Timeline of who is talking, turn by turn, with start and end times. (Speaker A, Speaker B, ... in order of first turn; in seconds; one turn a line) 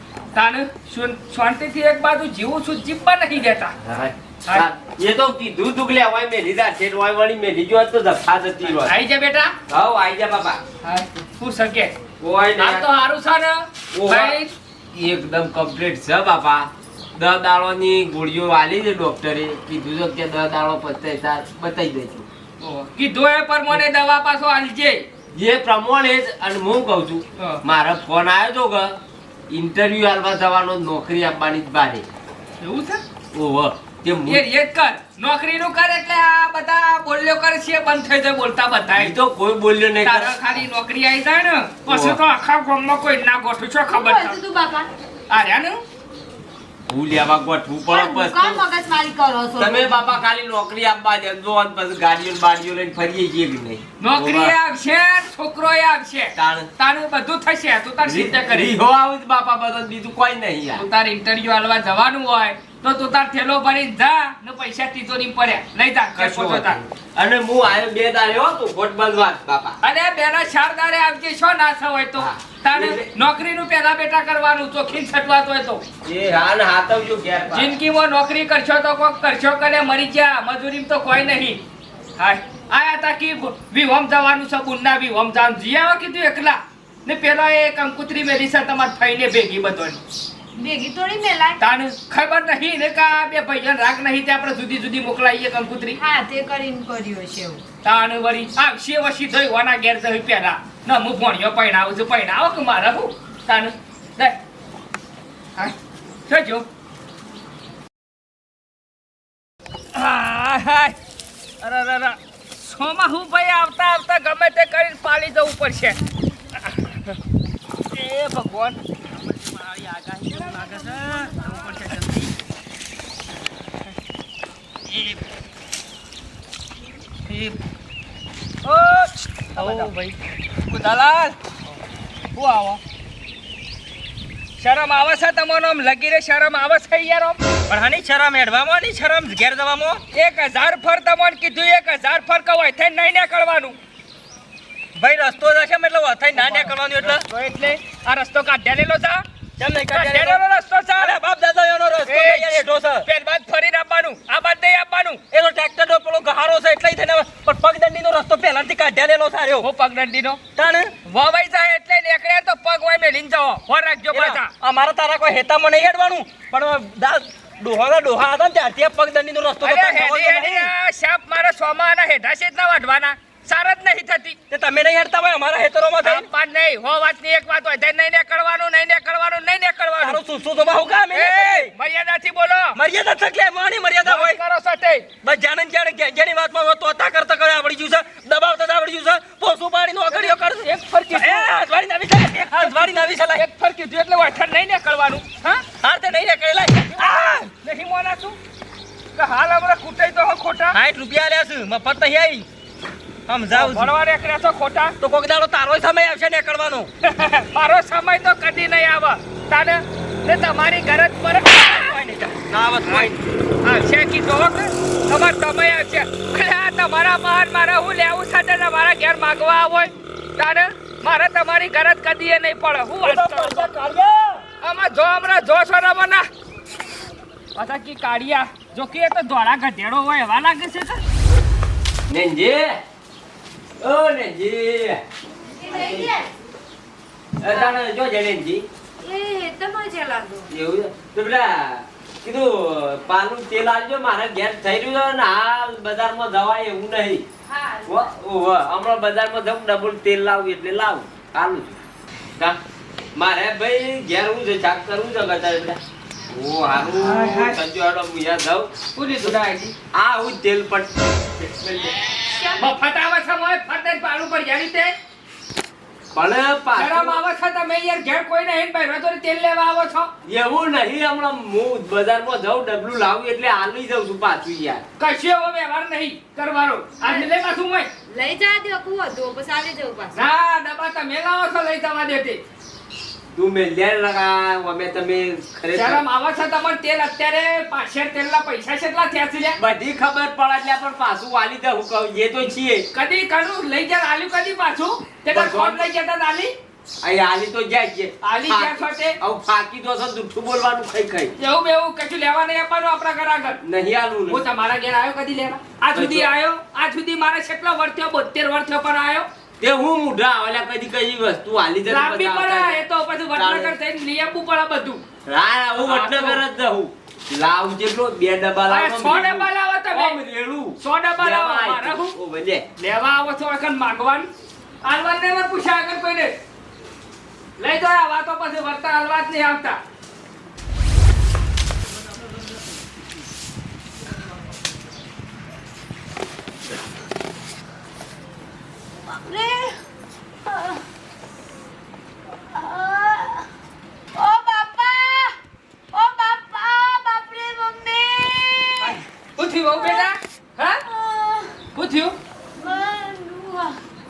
Speaker A: 0.3-3.7
Speaker B: 3.8-9.0
Speaker A: 8.8-9.5
Speaker B: 9.7-10.6
Speaker A: 10.8-11.9
Speaker B: 12.2-12.9
Speaker A: 12.6-14.5
Speaker B: 13.9-14.4
Speaker B: 14.9-22.3
Speaker A: 22.6-25.1
Speaker B: 25.3-29.0
Speaker B: 29.5-32.1
Speaker A: 32.6-33.0
Speaker B: 33.3-34.4
Speaker A: 34.3-39.2
Speaker B: 39.0-40.5
Speaker A: 40.0-44.4
Speaker B: 41.9-42.2
Speaker C: 43.9-44.9
Speaker A: 45.3-45.8
Speaker B: 46.9-48.6
Speaker C: 47.9-50.2
Speaker B: 49.6-54.5
Speaker A: 54.0-58.8
Speaker B: 56.4-56.7
Speaker B: 58.0-60.9
Speaker A: 60.8-66.8
Speaker B: 66.2-69.8
Speaker A: 69.8-75.8
Speaker B: 72.2-73.1
Speaker B: 76.0-77.8
Speaker A: 77.5-81.6
Speaker A: 82.2-90.0
Speaker C: 90.6-91.6
Speaker A: 91.6-96.0
Speaker C: 96.0-97.6
Speaker A: 97.8-104.4
Speaker A: 106.3-106.7
Speaker A: 109.9-111.0
Speaker A: 111.6-116.0
Speaker A: 116.7-117.1
Speaker A: 117.9-118.8
Speaker D: 119.2-122.2
Speaker A: 120.4-122.1
Speaker A: 128.7-129.9
Speaker D: 129.6-130.1
Speaker A: 130.7-131.4
Speaker A: 132.3-132.8
Speaker A: 134.6-137.4
Speaker D: 137.7-140.0
Speaker A: 140.1-143.8
Speaker D: 145.0-147.2
Speaker A: 146.4-149.2
Speaker D: 149.6-150.4
Speaker A: 149.9-151.1
Speaker D: 151.0-153.1
Speaker A: 152.1-155.2
Speaker D: 155.3-159.7
Speaker A: 159.6-160.4
Speaker D: 160.6-160.9
Speaker A: 161.1-164.5
Speaker D: 164.1-170.7
Speaker A: 169.6-174.4
Speaker D: 174.5-176.3
Speaker A: 176.0-180.2
Speaker D: 180.0-181.7
Speaker A: 181.1-182.8
Speaker D: 182.7-184.4
Speaker A: 184.0-185.1
Speaker D: 185.2-193.4
Speaker A: 190.1-191.5
Speaker A: 192.5-195.6
Speaker D: 195.8-197.5
Speaker A: 197.0-198.4
Speaker A: 199.2-200.8
Speaker D: 200.7-202.5
Speaker D: 203.3-203.9
Speaker A: 203.5-204.9
Speaker D: 205.0-206.9
Speaker A: 207.0-212.2
Speaker D: 211.8-213.1
Speaker A: 212.8-213.1
Speaker A: 213.6-223.7
Speaker D: 223.0-224.4
Speaker A: 224.6-226.3
Speaker A: 227.6-231.0
Speaker B: 232.1-232.8
Speaker B: 233.8-235.0
Speaker C: 235.5-236.3
Speaker B: 235.7-236.2
Speaker B: 237.4-238.7
Speaker C: 237.5-237.8
Speaker C: 239.0-240.5
Speaker B: 240.5-247.2
Speaker C: 247.5-248.1
Speaker B: 247.8-251.8
Speaker B: 253.2-258.7
Speaker A: 256.9-257.6
Speaker A: 258.9-259.7
Speaker B: 259.9-262.2
Speaker C: 262.3-262.7
Speaker A: 262.6-264.9
Speaker B: 266.1-267.2
Speaker A: 266.8-270.1
Speaker B: 270.3-274.8
Speaker A: 275.0-277.9
Speaker C: 277.0-277.4
Speaker C: 278.1-280.2
Speaker A: 280.1-282.4
Speaker B: 283.3-286.0
Speaker A: 285.7-289.6
Speaker B: 289.6-292.9
Speaker A: 292.9-296.5
Speaker B: 295.3-295.9
Speaker B: 297.0-301.4
Speaker A: 298.2-299.2
Speaker A: 301.4-303.6
Speaker B: 303.6-304.4
Speaker A: 304.3-309.3
Speaker B: 305.9-306.3
Speaker B: 309.6-313.8
Speaker A: 311.9-315.0
Speaker B: 315.3-322.7
Speaker A: 315.8-316.4
Speaker A: 318.6-320.2
Speaker A: 320.8-322.1
Speaker A: 322.8-324.3
Speaker A: 324.9-326.3
Speaker A: 327.6-329.8
Speaker C: 339.0-339.8
Speaker C: 340.5-340.8
Speaker C: 342.5-343.5
Speaker C: 344.1-345.4
Speaker C: 345.9-349.0
Speaker A: 348.8-350.8
Speaker C: 349.7-350.1
Speaker C: 350.9-351.6
Speaker A: 351.7-352.2
Speaker C: 352.6-353.8